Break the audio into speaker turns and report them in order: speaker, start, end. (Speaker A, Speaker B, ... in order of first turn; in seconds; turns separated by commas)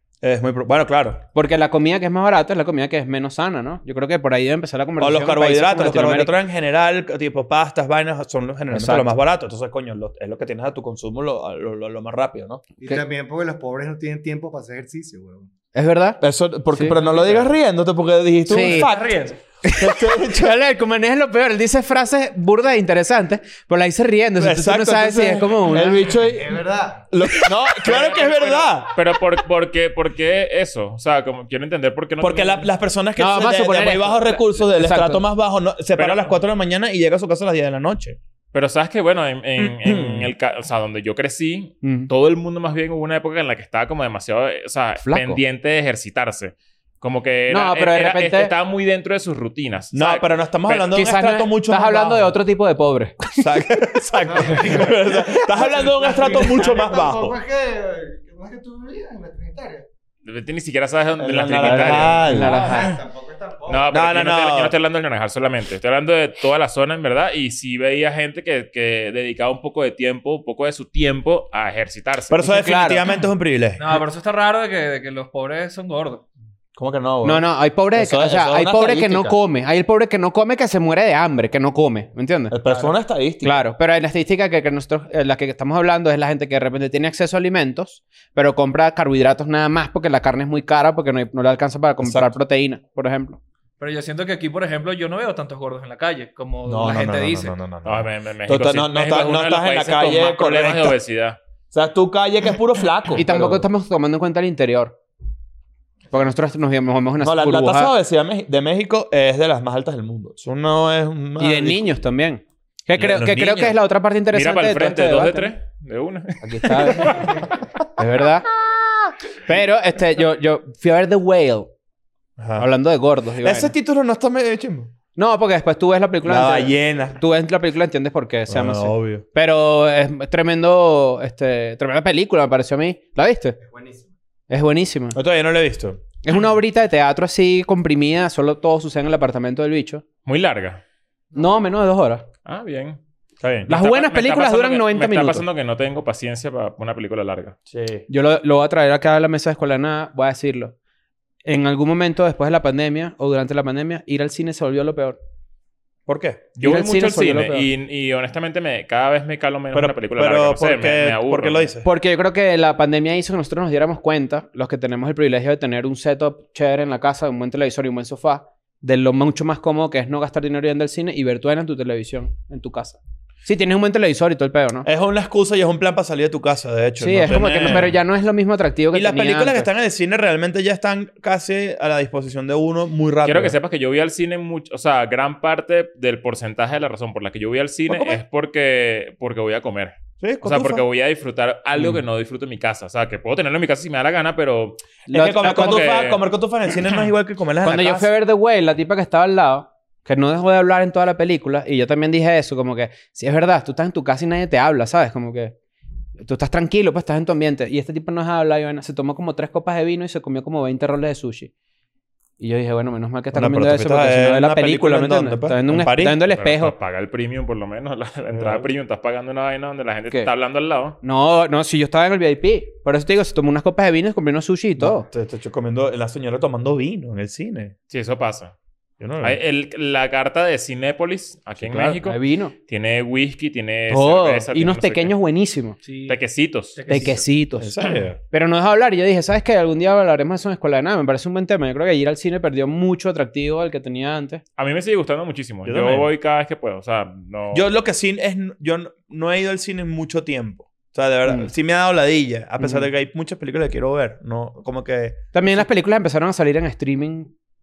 Speaker A: 0.2-1.2, Speaker B: 1.3-6.3, Speaker A: 5.0-12.6, Speaker B: 8.7-9.1, Speaker C: 12.8-15.5, Speaker B: 15.7-16.2, Speaker A: 16.2-20.5, Speaker B: 16.7-17.0, Speaker B: 18.5-18.9, Speaker D: 18.5-19.4, Speaker B: 19.6-26.2, Speaker A: 24.4-26.6, Speaker C: 26.2-27.1, Speaker A: 27.1-28.9, Speaker E: 27.8-32.7, Speaker A: 32.2-38.2, Speaker B: 33.2-35.2, Speaker E: 35.9-36.3, Speaker E: 38.5-50.9, Speaker A: 39.6-40.3, Speaker B: 41.8-42.1, Speaker B: 45.0-45.4, Speaker B: 47.5-48.5, Speaker A: 49.9-52.4, Speaker B: 50.8-53.5, Speaker A: 53.4-57.4, Speaker C: 54.3-59.8, Speaker E: 60.2-62.2, Speaker A: 61.2-62.7, Speaker B: 61.6-63.0, Speaker C: 62.1-63.9, Speaker E: 63.7-72.4, Speaker A: 63.9-64.7, Speaker A: 72.3-73.8, Speaker B: 72.4-73.0, Speaker D: 73.8-76.2, Speaker A: 76.8-79.4, Speaker B: 77.2-82.5, Speaker A: 82.5-83.6, Speaker D: 82.7-82.9, Speaker B: 83.4-93.4, Speaker A: 92.0-92.3, Speaker D: 93.8-97.5, Speaker A: 96.7-101.0, Speaker E: 97.8-101.4, Speaker A: 101.7-103.7, Speaker B: 103.1-105.0, Speaker B: 106.1-107.9, Speaker A: 107.2-111.8, Speaker B: 111.4-115.5, Speaker A: 113.0-113.8, Speaker E: 114.3-117.5, Speaker B: 116.4-118.5, Speaker B: 119.5-121.7, Speaker A: 122.4-122.7, Speaker B: 122.6-123.7, Speaker A: 123.4-124.9, Speaker B: 125.1-133.6, Speaker A: 126.2-127.2, Speaker A: 128.5-129.2, Speaker C: 133.6-134.1, Speaker B: 134.5-135.2, Speaker A: 135.1-136.0, Speaker B: 136.2-140.0, Speaker E: 140.2-140.8, Speaker B: 141.3-142.2, Speaker E: 142.4-143.0, Speaker A: 143.4-143.7, Speaker B: 143.7-145.4, Speaker E: 143.7-147.6, Speaker A: 147.7-148.0, Speaker B: 148.1-150.7, Speaker B: 151.4-155.2, Speaker A: 156.1-156.5, Speaker E: 156.6-161.7, Speaker B: 156.6-157.7, Speaker A: 159.7-161.9, Speaker B: 161.8-174.9, Speaker A: 174.8-177.9, Speaker B: 177.0-179.7, Speaker A: 178.9-183.6, Speaker E: 183.2-194.8, Speaker A: 187.9-188.2, Speaker A: 190.2-190.8, Speaker B: 195.1-195.9, Speaker A: 195.1-198.1, Speaker E: 195.3-196.2, Speaker B: 197.6-205.5, Speaker B: 206.2-211.5, Speaker B: 212.4-216.7, Speaker A: 213.3-216.2, Speaker E: 216.2-221.0, Speaker A: 218.3-218.7, Speaker B: 221.0-225.1, Speaker A: 224.8-227.7, Speaker E: 227.9-228.5, Speaker A: 229.0-229.4, Speaker E: 229.2-235.1, Speaker A: 231.6-232.0, Speaker B: 232.0-232.5, Speaker B: 233.9-235.8, Speaker D: 235.8-236.2, Speaker E: 236.1-236.8, Speaker D: 236.8-237.2, Speaker B: 236.9-244.4, Speaker A: 237.6-238.2, Speaker E: 244.6-247.7, Speaker A: 245.6-246.1, Speaker A: 247.5-255.6, Speaker B: 252.6-252.8, Speaker B: 255.3-257.3